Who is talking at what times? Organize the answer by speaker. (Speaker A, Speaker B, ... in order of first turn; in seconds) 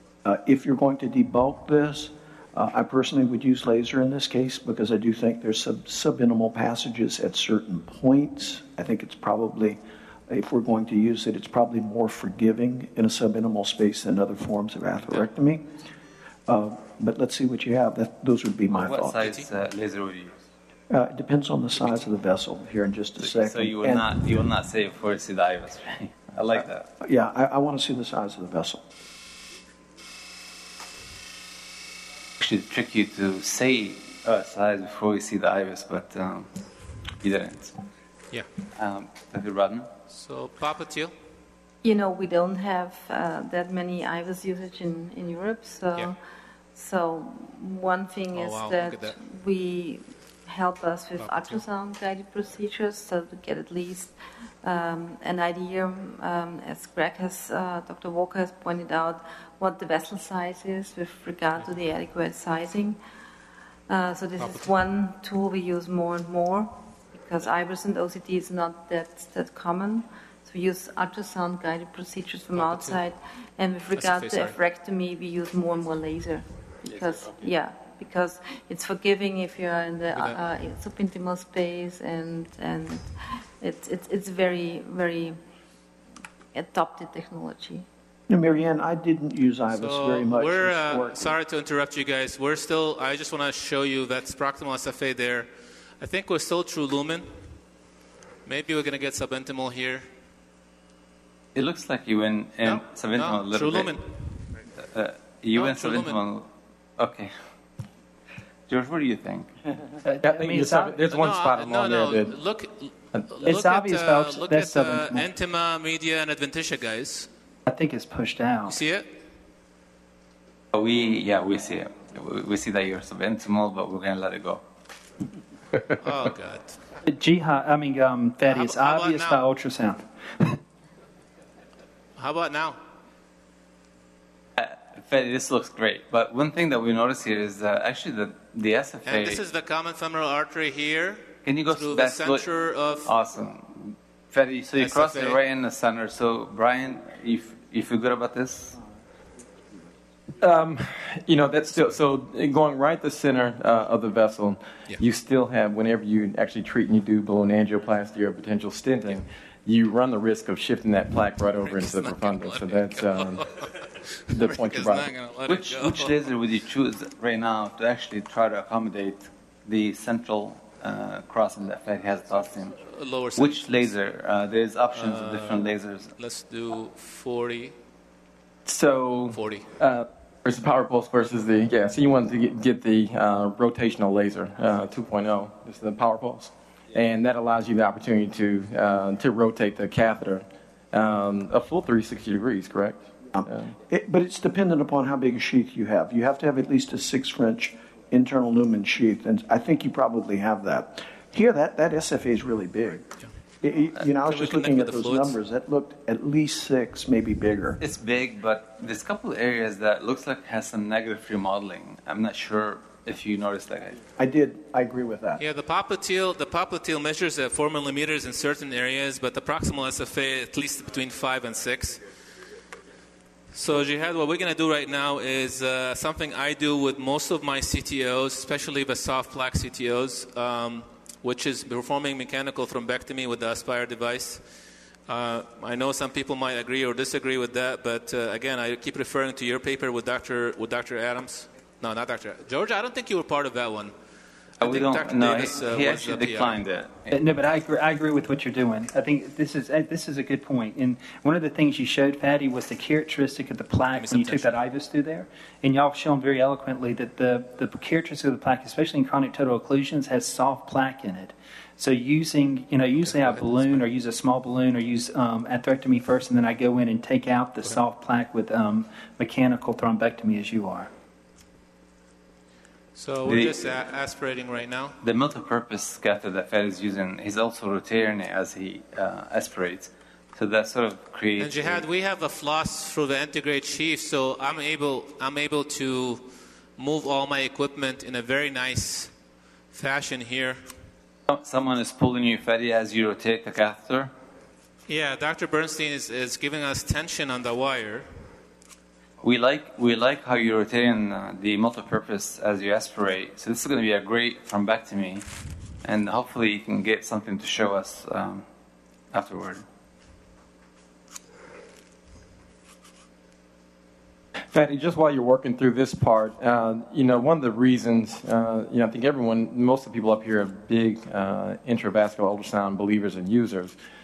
Speaker A: 0.2-15.7, 16.5-19.4, 20.9-24.4, 26.6-28.9, 88.3-91.4, 193.3-207.8, 214.2-215.4
Speaker B: 15.0-15.3, 21.8-22.1, 40.1-41.1, 48.3-49.2, 51.2-51.6, 64.4-64.8, 72.5-73.0, 74.0-74.6, 80.1-80.4, 89.7-97.4, 98.5-100.1, 102.6-104.5, 105.5-106.2, 111.1-117.3, 118.7-119.1, 126.0-126.8, 128.5-129.4, 132.2-132.8, 139.1-143.1, 144.8-145.4, 161.6-166.2, 172.8-173.9, 174.9-177.8, 179.3-179.7, 204.1-205.4, 215.4-222.0, 223.5-234.4, 235.1-243.9, 244.6-246.6, 253.9-254.6, 263.0-263.9, 272.9-275.0, 281.4-289.1, 289.7-290.7, 294.9-298.1
Speaker C: 18.7-20.4, 23.2-26.9, 32.4-36.5, 37.1-37.8, 38.8-39.9, 76.8-77.5, 101.5-104.0, 104.8-107.4, 108.7-109.5, 120.7-124.6, 134.6-139.4, 141.4-142.5, 143.0-148.8, 165.5-172.8, 173.3-176.1, 207.8-214.0, 244.6-247.2, 273.2-273.7, 275.0-281.9, 291.3-294.1, 299.2-305.3, 305.8-308.4, 309.1-309.7
Speaker D: 41.8-46.2, 46.7-63.0, 63.9-85.4, 86.5-87.9
Speaker E: 110.0-111.0, 113.5-115.3, 117.7-118.8, 127.0-130.6, 247.1-270.9
Speaker F: 110.2-112.4, 150.4-163.5, 164.3-165.1, 178.7-193.7, 314.5-323.8